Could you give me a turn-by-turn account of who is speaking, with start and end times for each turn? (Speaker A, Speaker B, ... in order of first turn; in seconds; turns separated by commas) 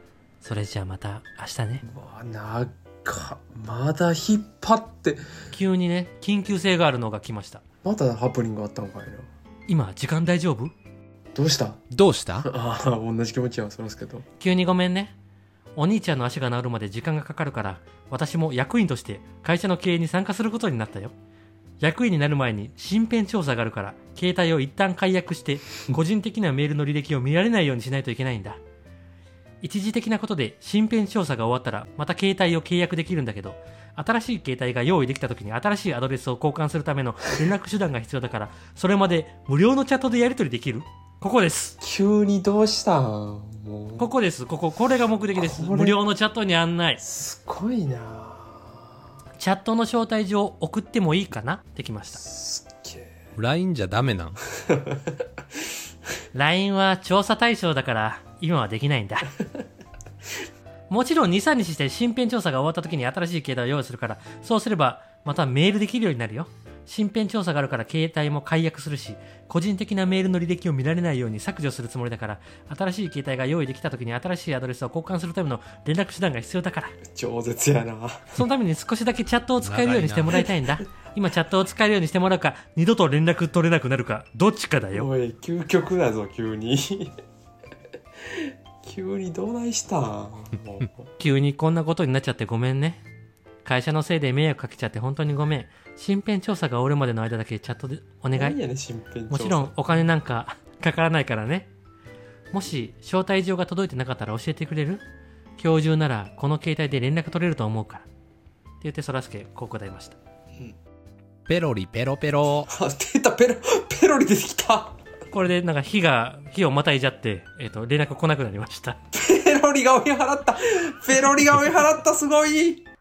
Speaker A: 0.4-1.8, Speaker B: 1.8-5.3, Speaker A: 5.5-7.6, Speaker B: 7.8-9.3, Speaker A: 9.7-10.7, Speaker B: 11.3-11.8, Speaker C: 11.9-12.5, Speaker B: 12.4-14.2, Speaker A: 14.4-15.1, Speaker A: 15.8-21.1, Speaker A: 21.8-28.6, Speaker A: 29.6-41.8, Speaker B: 41.8-44.1, Speaker A: 44.0-47.0, Speaker B: 45.4-46.0, Speaker B: 47.0-48.9, Speaker A: 49.4-52.2, Speaker B: 52.2-53.1, Speaker C: 53.3-54.4, Speaker B: 54.6-55.2, Speaker A: 56.3-59.3, Speaker A: 60.9-77.0, Speaker B: 77.0-78.4, Speaker A: 78.3-85.1, Speaker C: 79.6-80.5, Speaker B: 84.9-87.2, Speaker B: 88.2-91.1, Speaker A: 91.2-93.0, Speaker A: 93.6-98.6, Speaker B: 98.3-99.7, Speaker A: 99.3-101.7, Speaker A: 102.5-105.0, Speaker A: 105.6-108.1, Speaker A: 108.8-110.2, Speaker C: 111.5-112.7, Speaker B: 112.7-115.0, Speaker A: 115.3-119.0, Speaker B: 119.1-122.9